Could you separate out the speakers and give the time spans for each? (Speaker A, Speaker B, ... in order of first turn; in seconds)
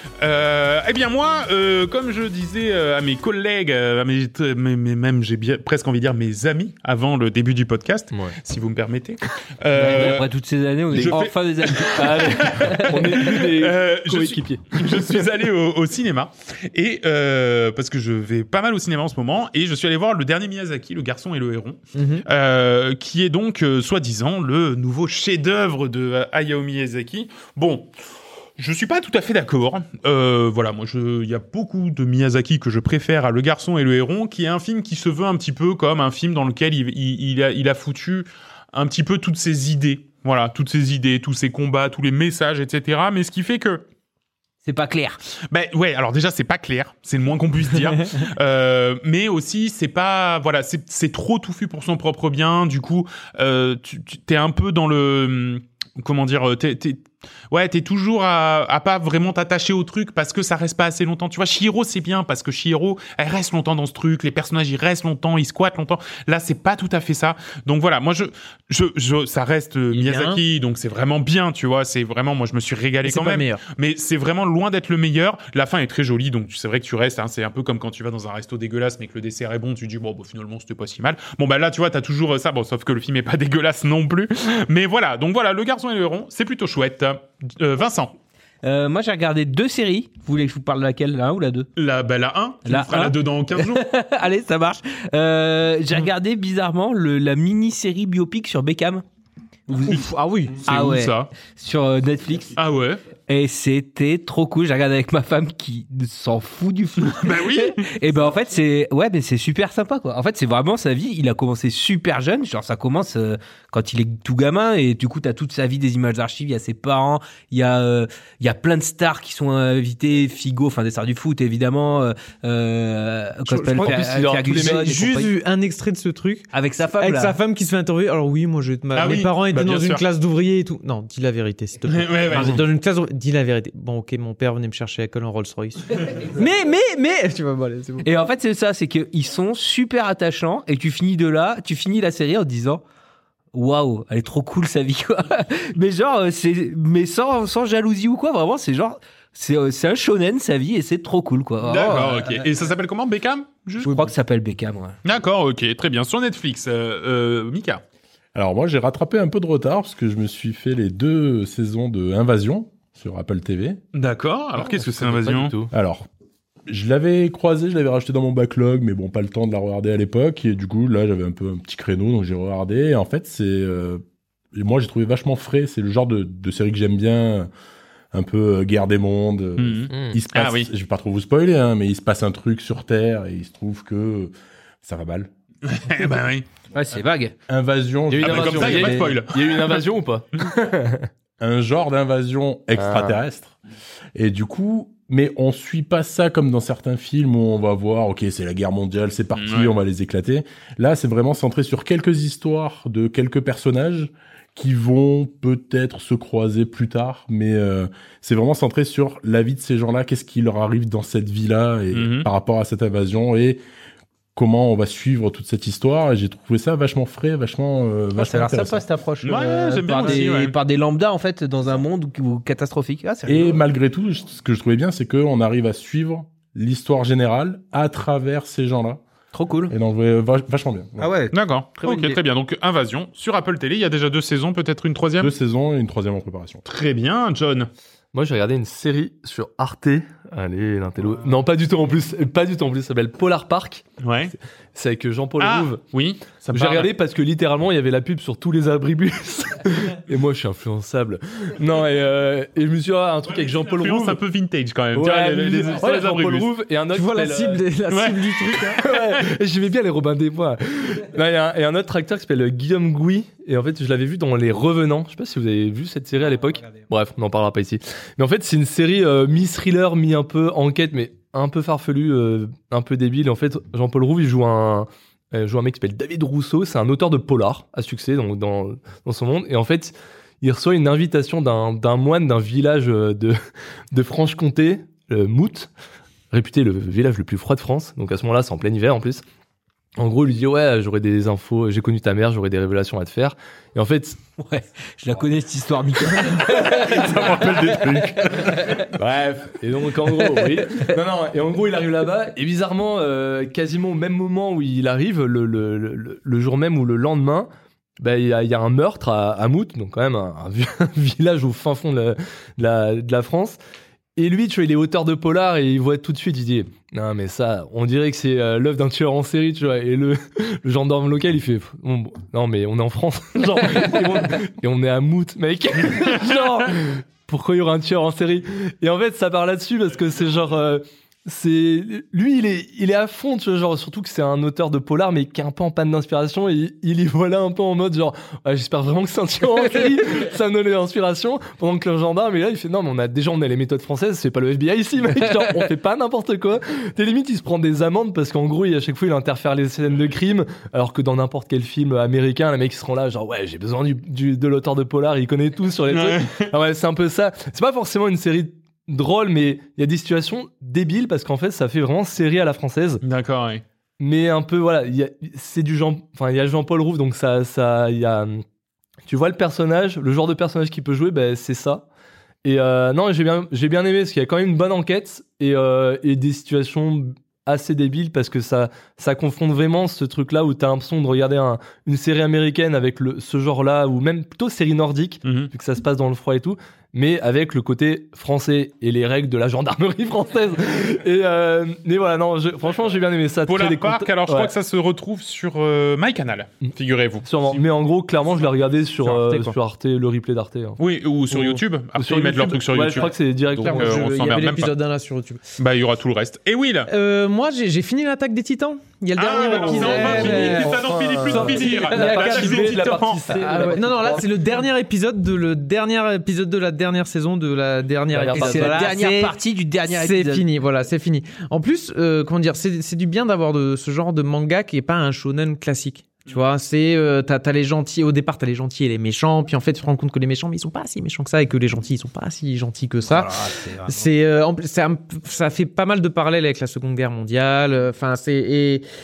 Speaker A: 0.2-10.3, 10.9-27.9, 28.6-43.8, 45.5-88.1, 91.8-93.9, 100.6-101.3, 102.6-103.0, 107.1-107.9, 128.9-130.1, 131.9-132.6, 151.6-154.0, 155.0-157.8, 163.9-165.6, 179.6-180.7, 185.6-186.4, 188.2-189.8, 199.3-199.8, 211.9-212.3, 219.2-220.6, 231.3-235.3, 236.7-237.7, 244.0-244.3, 245.4-246.9, 253.3-256.5, 257.9-259.2, 296.7-298.6, 355.9-356.5, 363.0-363.6, 385.2-385.5, 393.5-397.6, 399.1-399.5, 400.8-404.7, 405.6-406.9, 409.2-413.2
Speaker B: 9.8-13.0, 44.6-45.2, 88.6-91.7, 92.7-99.0, 99.8-102.6, 103.3-125.3, 126.5-127.4, 138.0-142.8, 143.5-152.5, 153.8-155.0, 186.8-187.3, 188.7-189.0, 218.2-223.6, 229.3-229.7, 231.0-232.2, 294.4-298.9, 300.1-300.9, 418.3-420.5, 433.1-434.1
Speaker C: 10.9-15.3, 123.8-125.0, 164.6-165.7, 188.1-191.1, 192.8-193.2, 238.1-243.9, 244.7-245.8, 246.5-254.2, 254.9-257.6, 258.8-283.4, 283.9-285.7, 286.3-289.2, 290.0-294.2, 299.1-307.5, 308.0-313.6, 314.2-363.0, 364.0-368.4, 369.1-371.9, 372.4-394.5, 397.2-400.8, 401.3-404.4, 409.6-414.5, 418.1-418.9
Speaker D: 21.9-22.3, 69.9-70.4, 73.0-73.6, 99.7-100.6, 123.5-138.1, 256.9-258.8, 403.6-405.4, 406.9-412.7, 413.3-438.9
Speaker E: 158.3-163.8, 165.7-166.1, 166.7-174.0, 174.5-177.5, 178.1-184.3, 184.8-185.3, 187.5-189.0, 191.4-193.6, 194.2-213.6, 214.3-218.8, 223.3-229.0, 229.7-231.1, 235.2-236.6, 297.0-298.1